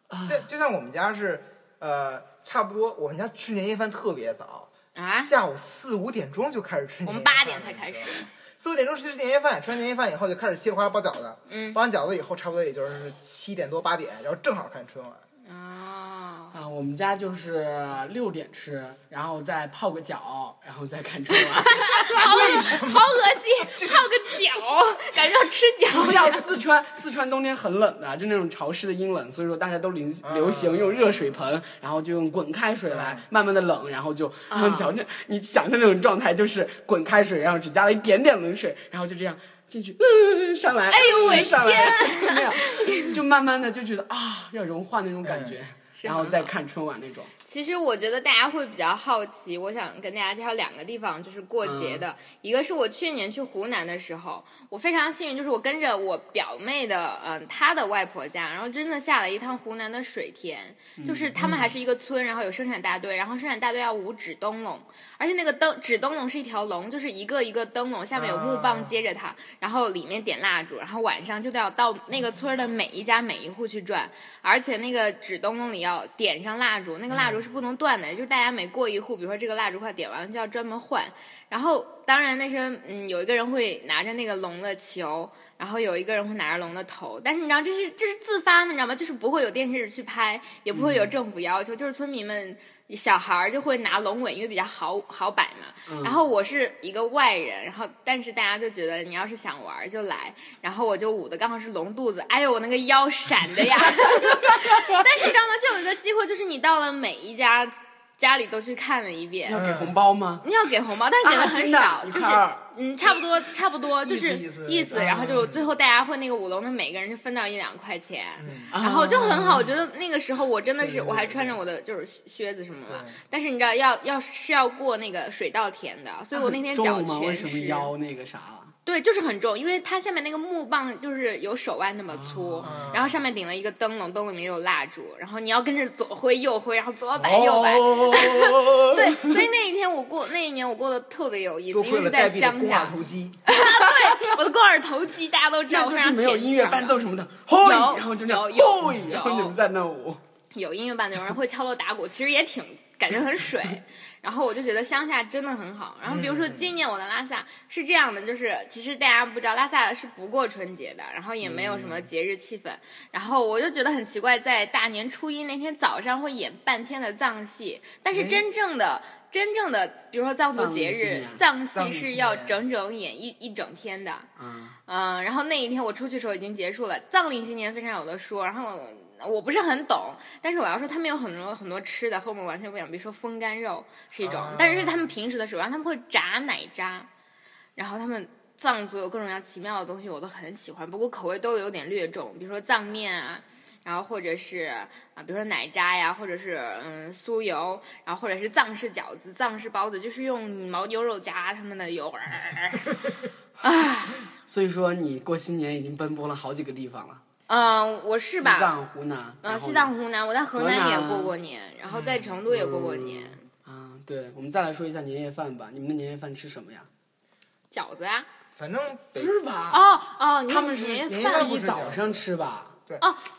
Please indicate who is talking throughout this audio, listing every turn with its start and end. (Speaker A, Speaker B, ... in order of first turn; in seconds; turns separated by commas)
Speaker A: 0.1-0.4, Speaker B: 0.2-15.2, Speaker C: 4.9-5.3, Speaker C: 7.0-8.3, Speaker C: 11.5-11.8, Speaker C: 15.4-16.5, Speaker A: 16.5-22.2, Speaker C: 21.4-26.5, Speaker B: 22.1-23.2, Speaker B: 23.7-24.1, Speaker A: 25.9-47.3, Speaker B: 30.2-31.4, Speaker B: 32.9-33.2, Speaker C: 34.5-34.9, Speaker C: 40.9-43.2, Speaker B: 45.2-45.6, Speaker C: 46.0-46.5, Speaker C: 47.4-109.7, Speaker A: 51.6-52.0, Speaker A: 61.0-61.7, Speaker B: 68.1-69.0, Speaker B: 77.1-77.4, Speaker A: 90.7-91.1, Speaker A: 95.9-96.2, Speaker A: 104.0-105.0, Speaker A: 109.5-110.5, Speaker B: 109.5-110.0, Speaker C: 110.4-127.9, Speaker A: 111.2-112.6, Speaker B: 114.0-115.7, Speaker A: 114.9-115.6, Speaker B: 118.4-118.7, Speaker A: 118.7-119.7, Speaker A: 120.8-121.5, Speaker B: 121.0-121.4, Speaker B: 122.9-123.2, Speaker A: 126.3-128.7, Speaker C: 128.8-147.0, Speaker A: 132.1-132.8, Speaker B: 132.6-133.2, Speaker A: 137.2-139.4, Speaker B: 141.7-143.4, Speaker A: 143.6-144.4, Speaker A: 145.7-150.2, Speaker C: 147.6-149.6, Speaker C: 150.5-174.3, Speaker B: 156.0-156.7, Speaker A: 161.4-162.1, Speaker B: 168.1-168.4, Speaker A: 170.5-171.4, Speaker B: 171.7-172.6, Speaker A: 174.4-174.8, Speaker C: 174.9-187.1, Speaker B: 184.2-185.1, Speaker C: 187.8-203.0, Speaker C: 203.6-204.3, Speaker A: 204.5-207.2, Speaker C: 207.5-208.8, Speaker A: 208.3-209.9, Speaker C: 209.4-213.4, Speaker A: 210.5-211.3, Speaker B: 211.9-212.3, Speaker A: 212.5-216.9, Speaker C: 217.7-218.3, Speaker B: 218.6-219.3, Speaker A: 219.2-220.0, Speaker C: 219.7-221.5, Speaker A: 220.5-222.8, Speaker B: 221.0-222.2, Speaker C: 223.0-223.3